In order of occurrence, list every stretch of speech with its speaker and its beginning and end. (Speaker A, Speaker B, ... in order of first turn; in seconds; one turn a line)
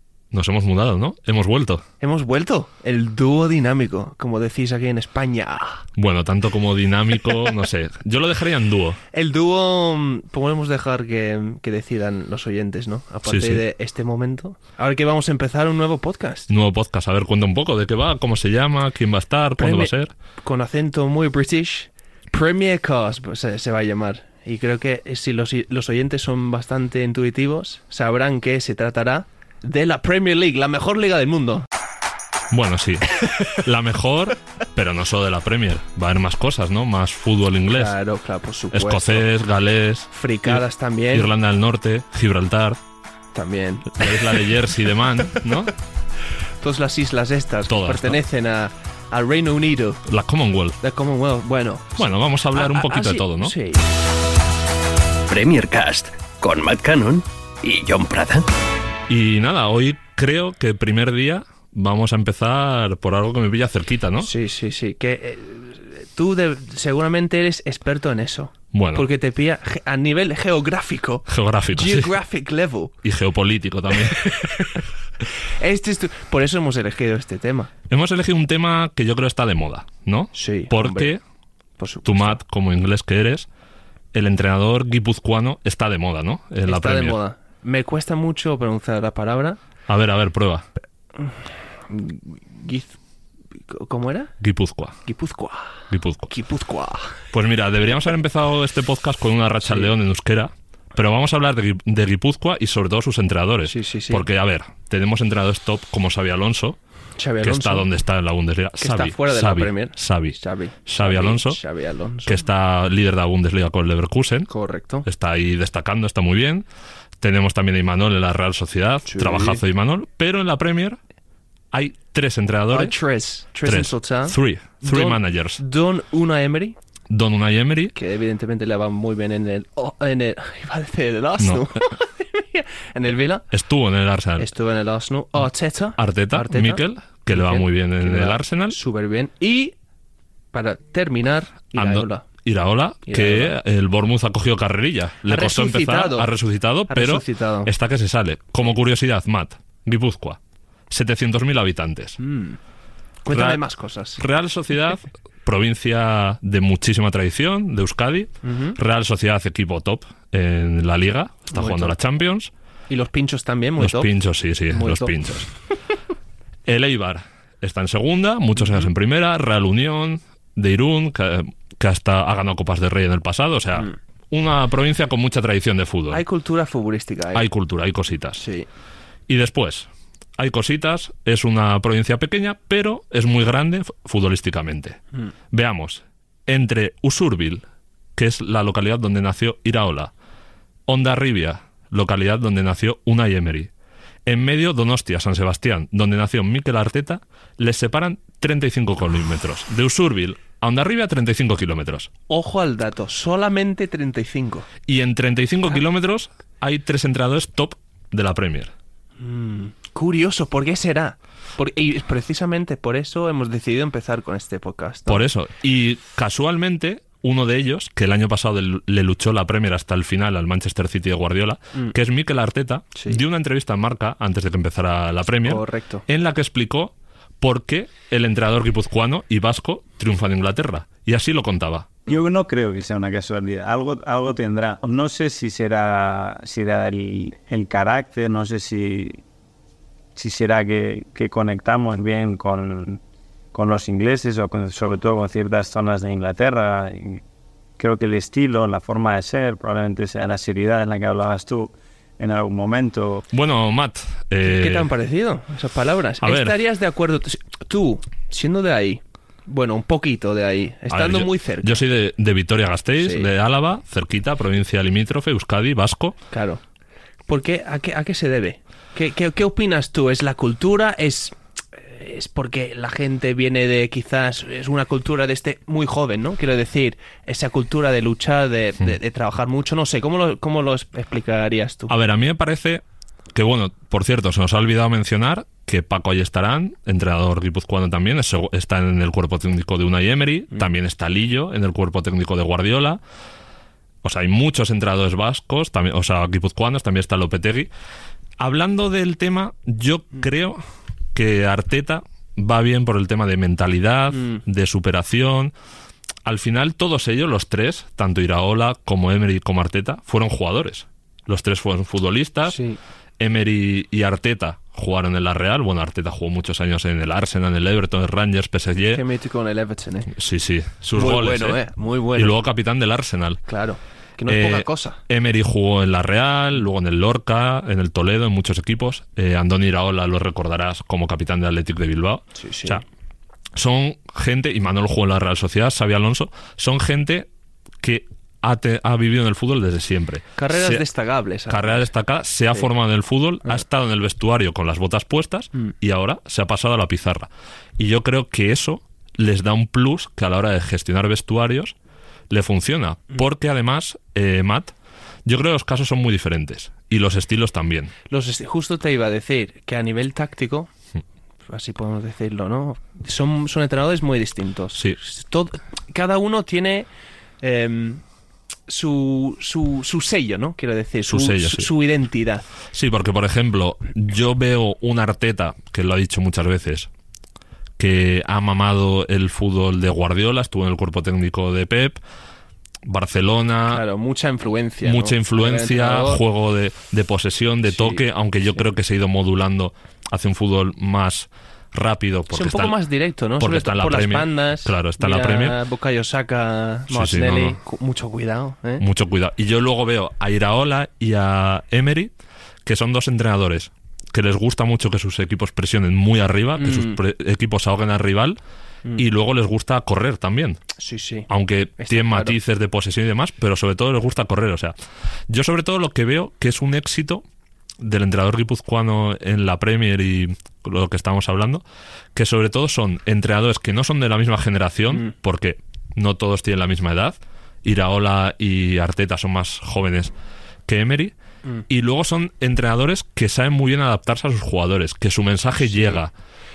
Speaker A: 0.3-1.8
Speaker B: 2.0-5.8
Speaker A: 6.0-9.0
Speaker B: 9.1-16.5
Speaker A: 13.2-13.6
Speaker A: 16.5-20.1
Speaker B: 19.6-31.6
Speaker A: 32.5-37.9
Speaker B: 37.7-39.3
Speaker A: 38.7-42.8
Speaker B: 40.1-41.3
Speaker B: 43.3-44.5
Speaker A: 43.9-45.7
Speaker B: 46.6-50.0
Speaker A: 47.7-48.2
Speaker A: 50.0-50.8
Speaker B: 50.8-52.0
Speaker A: 52.0-53.5
Speaker B: 52.5-53.9
Speaker C: 55.3-58.5
Speaker A: 59.1-64.3
Speaker B: 64.2-72.9
Speaker A: 68.7-69.1
Speaker A: 71.3-72.1
Speaker A: 73.0-74.3
Speaker B: 73.9-77.7
Speaker A: 77.9-81.2
Speaker B: 80.3-81.1
Speaker B: 81.8-82.4
Speaker A: 82.0-83.5
Speaker A: 84.1-87.2
Speaker B: 86.7-89.6
Speaker A: 89.9-90.7
Speaker B: 91.9-93.0
Speaker B: 93.7-94.3
Speaker A: 94.4-94.9
Speaker B: 95.0-97.2
Speaker A: 95.9-96.3
Speaker A: 97.3-106.8
Speaker B: 103.7-104.2
Speaker B: 107.2-107.8
Speaker A: 107.4-111.6
Speaker B: 108.8-112.4
Speaker A: 112.2-114.5
Speaker B: 114.5-115.0
Speaker A: 115.0-116.7
Speaker A: 117.2-121.0
Speaker B: 119.1-119.6
Speaker A: 121.7-122.9
Speaker B: 122.7-126.7
Speaker A: 123.6-125.6
Speaker A: 127.1-127.9
Speaker B: 127.9-133.5
Speaker A: 131.4-131.8
Speaker A: 133.5-134.5
Speaker B: 134.4-139.7
Speaker A: 136.0-138.8
Speaker B: 140.5-142.2
Speaker A: 141.7-150.4
Speaker B: 143.1-143.6
Speaker B: 145.2-146.3
Speaker B: 146.9-147.7
Speaker A: 150.9-152.2
Speaker B: 152.2-152.6
Speaker B: 153.2-154.2
Speaker A: 153.3-153.6
Speaker A: 154.2-162.5
Speaker B: 158.5-158.8
Speaker B: 161.6-161.9
Speaker B: 162.9-164.1
Speaker A: 163.8-165.5
Speaker B: 164.7-165.5
Speaker A: 166.7-176.2
Speaker B: 176.1-177.4
Speaker A: 177.3-178.4
Speaker B: 178.4-178.7
Speaker A: 179.3-185.0
Speaker A: 185.5-187.6
Speaker A: 188.2-190.1
Speaker A: 190.9-193.7
Speaker A: 194.3-202.1
Speaker B: 202.3-204.7
Speaker A: 204.9-208.7
Speaker B: 209.2-215.2
Speaker A: 215.1-231.9
Speaker B: 222.9-223.2
Speaker B: 225.4-226.0
Speaker D: 232.1-239.2
Speaker D: 240.2-243.0
Speaker D: 243.5-247.2
Speaker D: 247.8-253.2
Speaker A: 253.3-254.9
Speaker B: 254.4-261.8
Speaker A: 256.2-256.6
Speaker A: 260.9-266.2
Speaker B: 263.0-263.3
Speaker B: 266.3-266.6
Speaker B: 267.3-281.9
Speaker A: 281.9-282.8
Speaker A: 283.3-293.0
Speaker A: 294.0-297.7
Speaker A: 298.4-300.6
Speaker A: 301.1-305.5
Speaker A: 306.2-312.6
Speaker B: 312.5-312.8
Speaker A: 313.2-319.0
Speaker B: 318.9-320.1
Speaker A: 320.1-321.6
Speaker B: 320.9-322.4
Speaker A: 322.1-323.4
Speaker B: 323.5-325.0
Speaker A: 324.3-332.8
Speaker B: 332.4-332.8
Speaker A: 333.6-337.3
Speaker A: 337.8-340.9
Speaker B: 340.4-341.9
Speaker A: 341.5-351.8
Speaker A: 352.3-354.7
Speaker A: 355.2-357.9
Speaker B: 358.1-360.7
Speaker B: 361.5-366.9
Speaker B: 367.4-368.0
Speaker B: 368.7-372.4
Speaker A: 371.1-371.7
Speaker A: 372.7-376.9
Speaker A: 377.8-382.0
Speaker A: 382.8-383.8
Speaker B: 383.7-386.2
Speaker A: 384.8-392.7
Speaker B: 387.7-388.0
Speaker B: 392.3-398.8
Speaker A: 393.4-395.6
Speaker A: 396.9-397.6
Speaker A: 398.8-402.1
Speaker A: 402.6-408.4
Speaker B: 406.6-407.0
Speaker A: 408.9-410.6
Speaker B: 410.8-411.3
Speaker A: 411.3-414.7
Speaker B: 411.8-412.4
Speaker A: 415.3-417.2
Speaker A: 417.8-421.6
Speaker A: 422.1-430.1
Speaker A: 430.7-431.1
Speaker A: 431.7-436.1